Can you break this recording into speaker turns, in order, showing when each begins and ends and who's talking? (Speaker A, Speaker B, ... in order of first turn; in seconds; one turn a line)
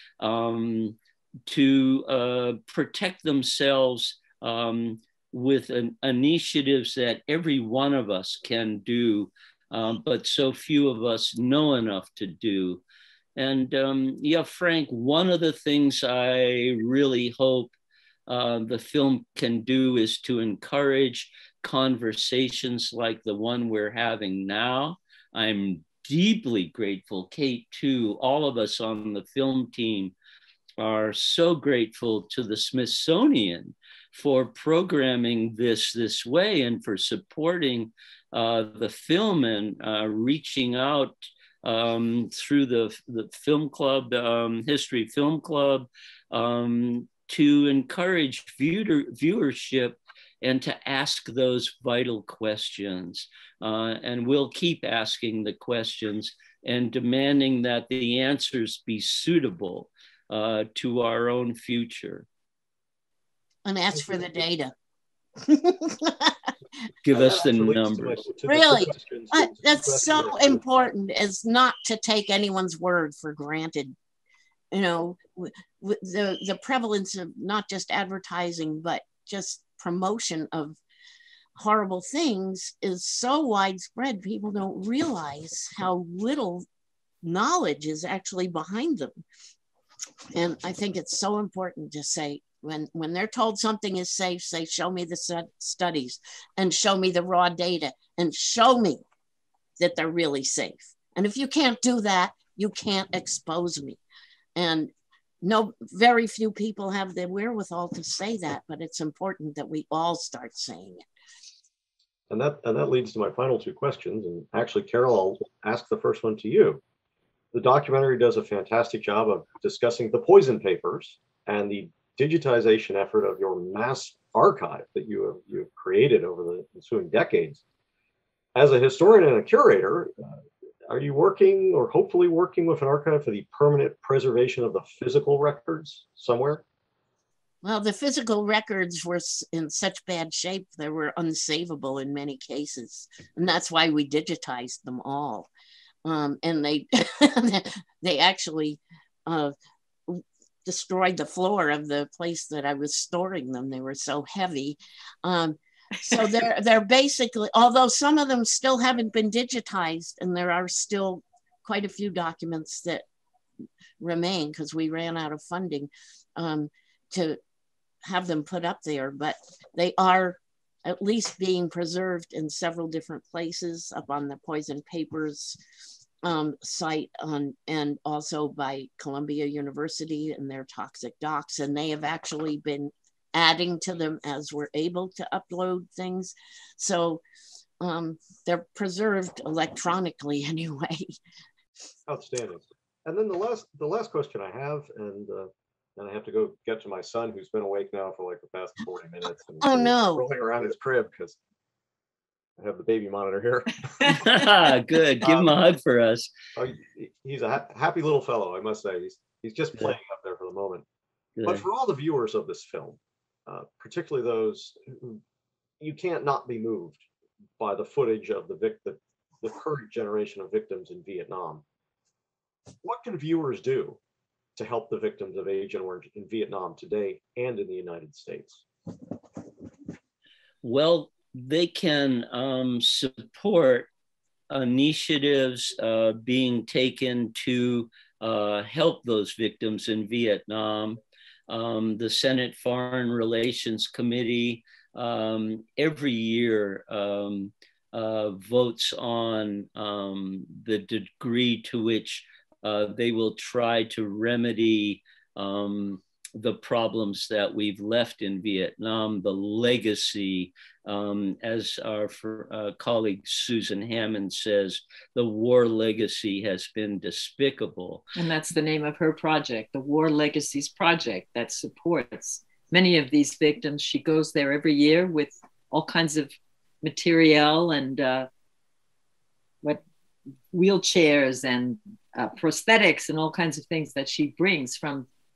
Speaker A: 0.2-12.8
Speaker A: 13.4-17.7
Speaker A: 18.3-30.1
Speaker A: 30.8-62.3
Speaker B: 63.6-64.7
Speaker B: 65.4-66.5
Speaker A: 67.0-68.3
Speaker C: 67.1-70.7
Speaker B: 68.5-74.0
Speaker B: 74.7-80.8
Speaker B: 81.6-86.7
Speaker B: 87.2-89.2
Speaker B: 90.3-99.0
Speaker B: 99.8-104.0
Speaker B: 104.6-104.9
Speaker B: 105.4-111.0
Speaker C: 112.3-116.8
Speaker C: 117.5-127.6
Speaker C: 128.6-130.2
Speaker C: 130.9-136.6
Speaker B: 137.6-145.5
Speaker B: 146.1-149.5
Speaker B: 150.1-163.1
Speaker B: 164.0-167.4
Speaker B: 168.0-175.6
Speaker B: 176.2-187.2
Speaker B: 187.8-191.2
Speaker C: 192.1-201.4
Speaker B: 199.6-200.3
Speaker C: 202.6-204.4
Speaker A: 204.0-206.3
Speaker C: 205.2-205.5
Speaker C: 206.6-210.8
Speaker A: 211.4-211.7
Speaker C: 211.5-215.2
Speaker C: 215.8-217.0
Speaker C: 217.6-221.6
Speaker C: 222.8-224.0
Speaker C: 224.6-228.6
Speaker A: 230.6-233.9
Speaker A: 234.5-268.1
Speaker D: 268.2-278.3
Speaker D: 280.5-285.1